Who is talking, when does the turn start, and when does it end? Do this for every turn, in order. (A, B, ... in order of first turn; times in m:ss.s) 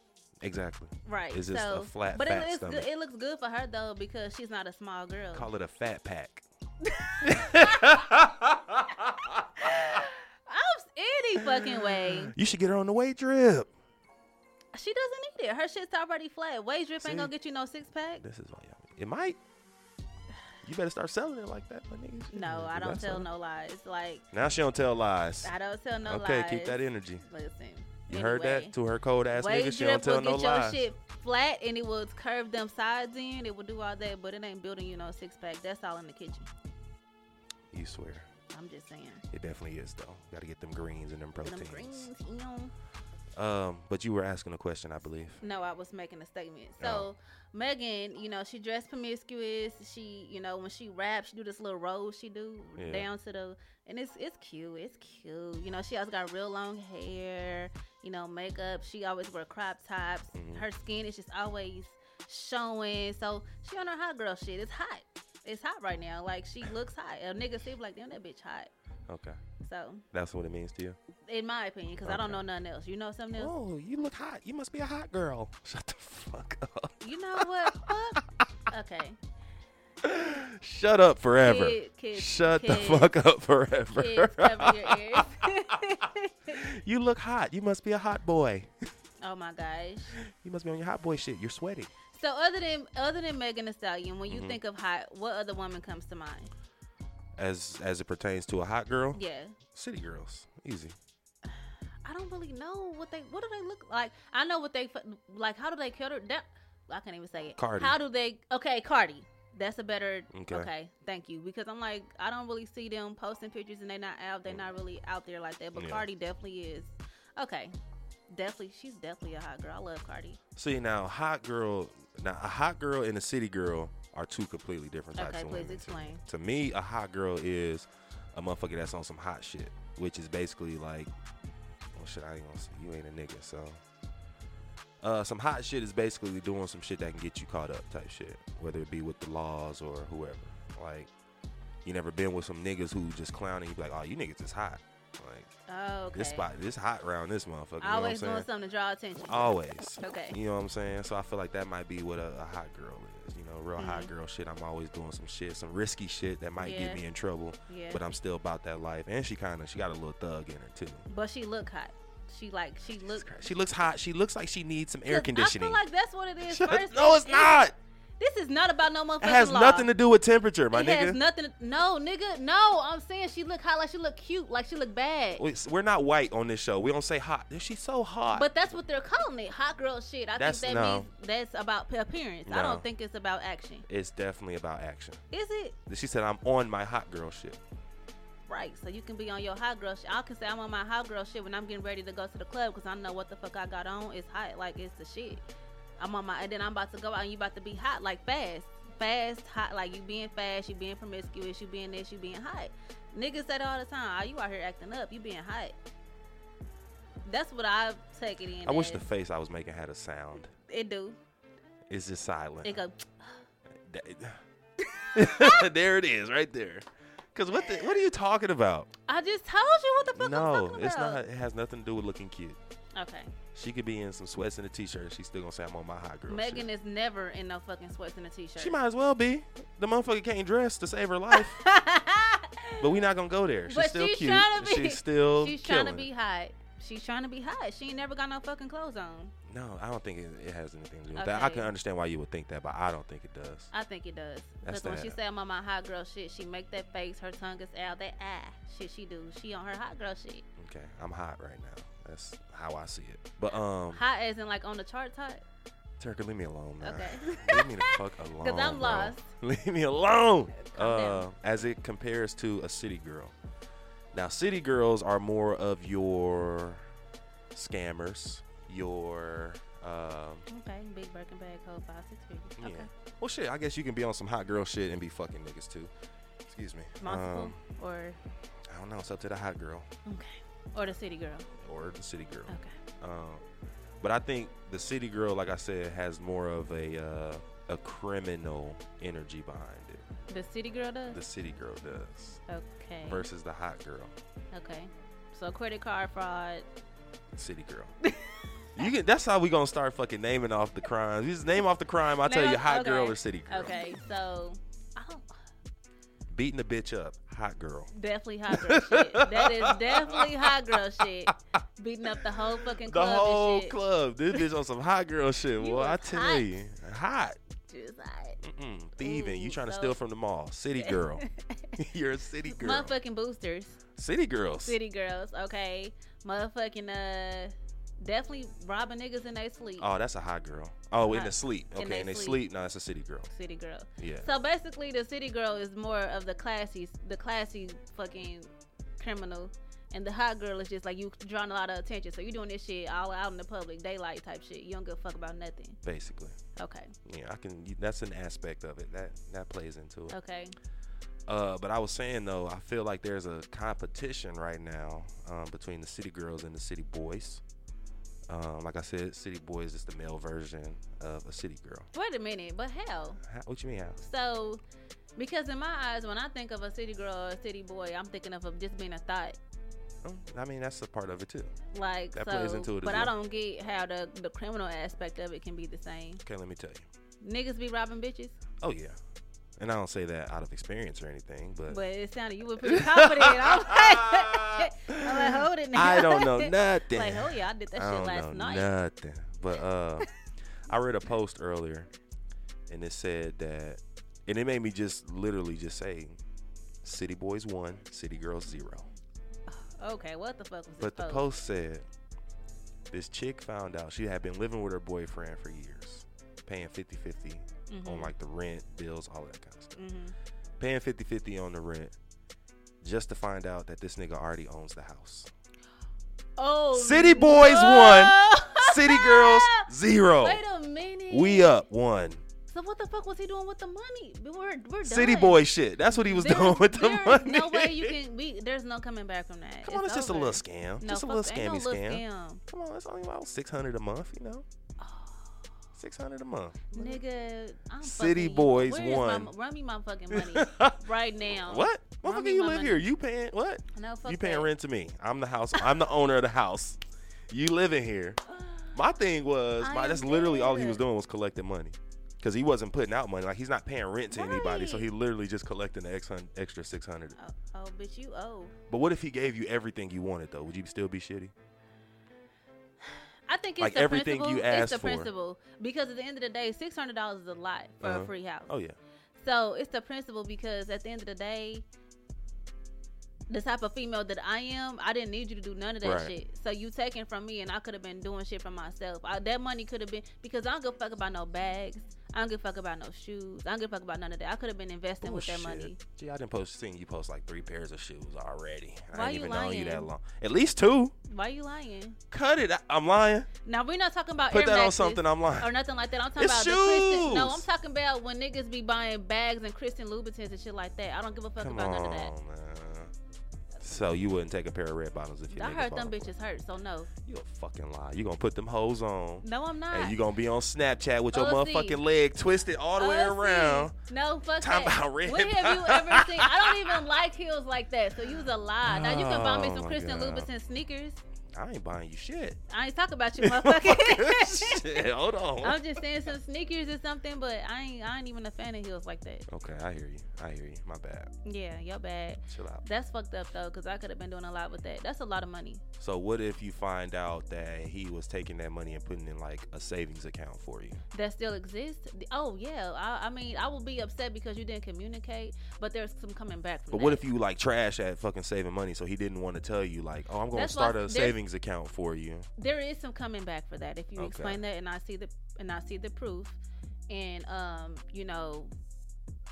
0:00.4-0:02.9 A
0:01.0-0:05.5 B
0:05.3-0:06.4 A
0:06.8-0:08.0 B
0:07.2-0:10.0 A
0:09.6-0:12.4 B
0:11.4-0:13.7 A
0:14.7-0:18.2 B
0:17.0-0:17.3 A
0:18.2-0:19.4 A
0:20.6-0:23.3 A
0:22.3-0:24.2 B
0:24.3-0:25.5 A
0:25.4-0:28.8 B
0:26.0-0:27.2 A
0:28.1-0:30.8 A
0:29.4-0:36.5 B
0:37.7-0:38.3 A
0:38.5-0:39.2 B
0:39.3-0:42.1 A
0:41.4-0:42.7 B
0:43.4-0:45.4 A
0:45.4-1:08.7 B
0:46.8-0:47.1 A
0:52.8-0:53.1 A
1:00.3-1:00.6 A
1:09.1-1:09.4 A
1:09.6-1:10.0 B
1:10.1-1:11.0 A
1:11.3-1:13.5 B
1:12.0-1:12.4 A
1:13.4-1:18.5 A
1:17.0-1:19.2 B
1:20.0-1:25.5 A
1:21.4-1:23.1 B
1:23.9-1:26.6 B
1:26.5-1:28.7 A
1:29.2-1:30.2 B
1:30.1-1:31.9 A
1:32.1-1:36.5 B
1:34.3-1:34.6 A
1:37.4-1:39.2 A
1:39.2-1:39.6 B
1:39.7-1:41.0 A
1:42.0-1:57.8 B
1:47.6-1:48.0 A
1:50.3-1:50.7 A
1:55.8-1:56.1 A
1:58.3-2:00.4 B
2:00.6-2:11.1 A
2:05.2-2:06.2 B
2:12.0-2:13.8 A
2:15.0-2:21.1 A
2:21.8-2:25.5 A
2:25.7-2:26.5 B
2:26.1-2:28.5 A
2:27.8-2:30.4 B
2:29.3-2:41.1 A
2:33.8-2:34.1 B
2:36.6-2:37.0 B
2:37.7-2:38.0 B
2:41.1-2:43.3 B
2:43.0-2:45.8 A
2:45.1-2:49.9 B
2:46.4-2:47.7 A
2:49.2-2:51.2 A
2:50.7-2:55.4 B
2:55.4-2:58.5 A
2:58.3-3:03.9 B
3:00.4-3:01.1 A
3:02.5-3:02.8 A
3:03.9-3:05.2 A
3:05.3-3:05.8 B
3:05.9-3:07.6 A
3:08.5-3:15.4 B
3:16.0-3:25.8 B
3:27.2-3:29.0 B
3:28.6-3:30.5 A
3:30.5-3:31.2 B
3:31.9-3:32.8 A
3:32.6-3:33.4 B
3:33.8-3:34.4 A
3:34.8-3:35.6 B
3:35.1-3:38.9 A
3:37.5-3:38.0 B
3:39.1-3:41.2 B
3:40.2-3:42.6 A
3:42.9-3:43.3 B
3:43.5-3:46.7 A
3:46.3-3:48.8 B
3:48.6-3:51.6 A
3:51.3-3:52.9 B
3:52.8-3:56.1 A
3:53.7-3:59.3 B
3:59.5-4:03.7 A
4:01.1-4:01.7 B
4:03.7-4:10.4 B
4:04.6-4:05.2 A
4:10.6-4:14.0 A
4:13.9-4:15.4 B
4:16.0-4:23.4 A
4:16.8-4:19.3 B
4:20.6-4:21.3 B
4:24.1-4:26.8 A
4:27.5-4:30.5 A
4:30.5-4:32.9 B
4:32.6-4:35.9 A
4:36.5-4:37.6 A
4:37.0-4:38.2 B
4:38.7-4:39.9 A
4:40.0-4:41.5 B
4:41.6-4:43.4 A
4:42.5-4:42.8 B
4:44.0-4:50.0 A
4:50.3-4:51.2 B
4:51.1-4:52.4 A
4:52.5-4:53.3 B
4:53.0-4:54.1 A
4:54.5-4:56.7 B
4:57.4-4:57.9 A
4:58.0-4:58.8 B
4:58.7-5:03.9 A
5:02.2-5:05.3 B
5:06.3-5:07.9 A
5:07.9-5:13.8 B
5:08.5-5:11.3 A
5:12.1-5:17.4 A
5:15.6-5:16.5 B
5:17.7-5:18.4 B
5:18.4-5:23.0 A
5:19.0-5:20.0 B
5:20.8-5:21.7 B
5:22.5-5:23.8 B
5:24.0-5:24.8 A
5:24.6-5:29.9 B
5:29.8-5:33.3 A
5:31.0-5:32.4 B
5:33.3-5:45.8 B
5:34.0-5:34.3 A
5:45.8-5:46.4 A
5:46.6-5:46.9 B
5:47.0-5:50.2 A
5:50.1-5:50.6 B
5:51.3-5:57.4 A
5:58.3-6:01.9 A
6:01.9-6:03.2 B
6:03.2-6:04.0 A
6:04.0-6:04.6 B
6:05.2-6:09.4 B
6:10.0-6:11.5 A
6:11.7-6:16.2 B
6:12.1-6:13.1 A
6:16.2-6:16.9 A
6:17.2-6:18.4 B
6:18.6-6:19.0 A
6:19.6-6:21.8 A
6:21.7-6:28.7 B
6:22.6-6:30.1 A
6:30.7-6:31.9 A
6:32.7-6:36.2 A
6:36.8-6:38.9 A
6:39.5-6:41.3 B
6:40.8-6:41.9 A
6:42.9-6:49.8 A
6:47.7-6:48.1 B
6:49.8-6:50.2 B
6:50.6-6:52.0 A
6:52.8-6:55.3 A
6:56.4-6:59.7 B
6:56.7-7:00.4 A
7:00.2-7:01.5 B
7:01.1-7:02.3 A
7:02.5-7:12.4 B
7:04.8-7:08.0 A
7:09.6-7:14.4 A
7:14.8-7:15.4 B
7:15.8-7:17.0 A
7:16.7-7:22.9 B
7:17.8-7:19.3 A
7:20.1-7:26.8 A
7:23.7-7:24.5 B
7:27.3-7:28.2 A
7:28.7-7:37.2 A
7:29.6-7:30.8 B
7:34.1-7:34.9 B
7:37.2-7:38.6 B
7:38.7-7:41.3 A
7:42.9-7:48.5 B
7:43.6-7:45.1 A
7:47.8-7:48.8 A
7:49.2-7:51.6 B
7:53.3-8:05.8 B
7:55.8-7:56.1 A
8:05.0-8:10.9 A
8:08.9-8:09.9 B
8:11.1-8:12.0 B
8:12.1-8:13.3 A
8:13.4-8:22.1 B
8:14.3-8:15.5 A
8:16.2-8:17.5 A
8:21.4-8:22.9 A
8:23.6-8:26.1 A
8:25.3-8:26.9 B
8:27.0-8:33.7 A
8:29.2-8:30.0 B
8:31.1-8:31.8 B
8:32.8-8:41.0 B
8:34.4-8:36.9 A
8:38.6-8:40.3 A
8:41.3-8:42.4 A
8:42.5-8:44.9 B
8:43.2-8:45.9 A
8:45.4-8:49.3 B
8:49.3-8:51.1 A
8:51.2-8:55.6 B
8:52.3-8:52.7 A
8:55.8-9:00.8 A
9:00.9-9:07.0 B
9:06.7-9:12.3 A
9:10.3-9:11.2 B
9:12.4-9:16.4 B
9:14.0-9:14.4 A
9:16.9-9:18.5 B